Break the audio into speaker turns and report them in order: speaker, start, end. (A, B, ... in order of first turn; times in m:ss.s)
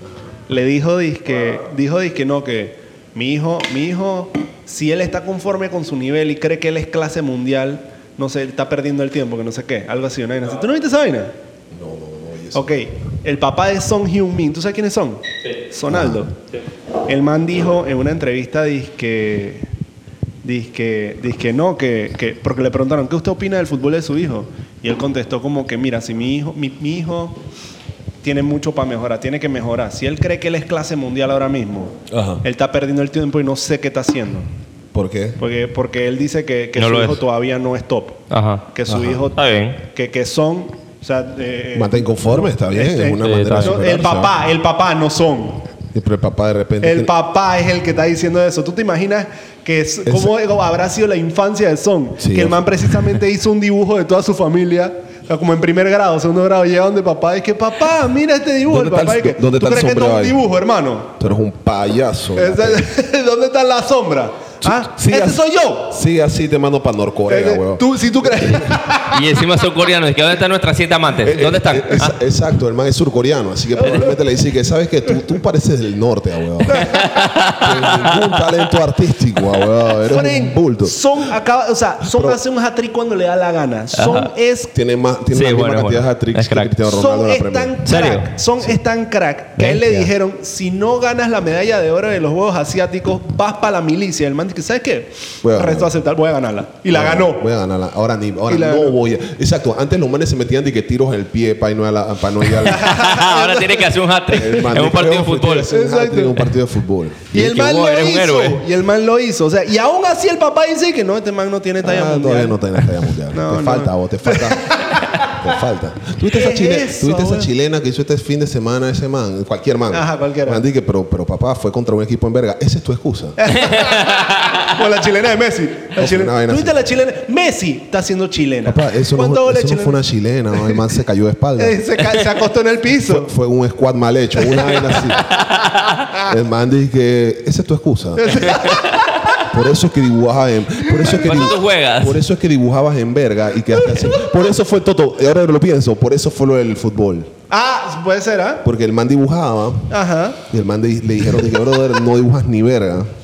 0:00.5-0:11.3 A
0:11.7-0:12.7 B
0:12.5-0:16.3 A
0:15.9-0:16.2 B
0:17.1-0:19.7 A
0:20.4-0:27.4 A
0:28.2-0:34.5 A
0:32.1-0:32.4 B
0:34.9-0:35.4 B
0:35.4-0:38.2 A
0:36.8-0:37.2 C
0:38.3-0:38.7 C
0:38.7-0:45.6 A
0:38.9-0:39.2 B
0:39.3-0:39.8 C
0:41.7-0:44.4 B
0:43.2-0:43.8 C
0:45.9-0:47.1 B
0:46.8-1:01.1 A
0:50.0-0:50.3 B
0:52.2-0:53.2 B
0:58.7-1:00.4 B
1:01.2-1:02.8 B
1:02.4-1:06.0 A
1:04.6-1:08.7 B
1:07.3-1:09.4 A
1:09.1-1:12.2 C
1:11.2-1:21.0 B
1:13.8-1:14.1 A
1:16.7-1:17.3 A
1:16.8-1:18.5 C
1:20.0-1:24.7 A
1:22.0-1:22.4 B
1:23.9-1:24.3 C
1:24.7-1:27.8 B
1:25.3-1:26.7 C
1:26.9-1:37.4 A
1:27.8-1:28.3 C
1:29.6-1:30.0 C
1:35.4-1:35.9 B
1:36.9-1:43.0 B
1:38.5-1:39.0 A
1:42.6-1:45.7 C
1:42.7-1:43.9 A
1:44.3-1:47.3 B
1:45.7-1:46.4 A
1:47.3-1:52.6 A
1:47.3-1:48.6 C
1:51.8-2:03.6 B
1:53.3-1:55.5 A
1:56.3-1:57.5 A
1:59.9-2:00.6 A
2:03.4-2:10.0 A
2:03.6-2:04.6 C
2:06.0-2:06.8 B
2:08.6-2:11.8 B
2:11.6-2:13.3 A
2:13.1-2:15.2 B
2:14.7-2:16.0 C
2:16.2-2:18.8 B
2:18.2-2:19.4 A
2:18.4-2:19.4 C
2:19.4-2:27.3 B
2:20.9-2:21.2 A
2:21.0-2:22.2 C
2:23.8-2:24.4 A
2:27.5-2:28.6 A
2:28.6-2:33.1 B
2:29.9-2:30.4 A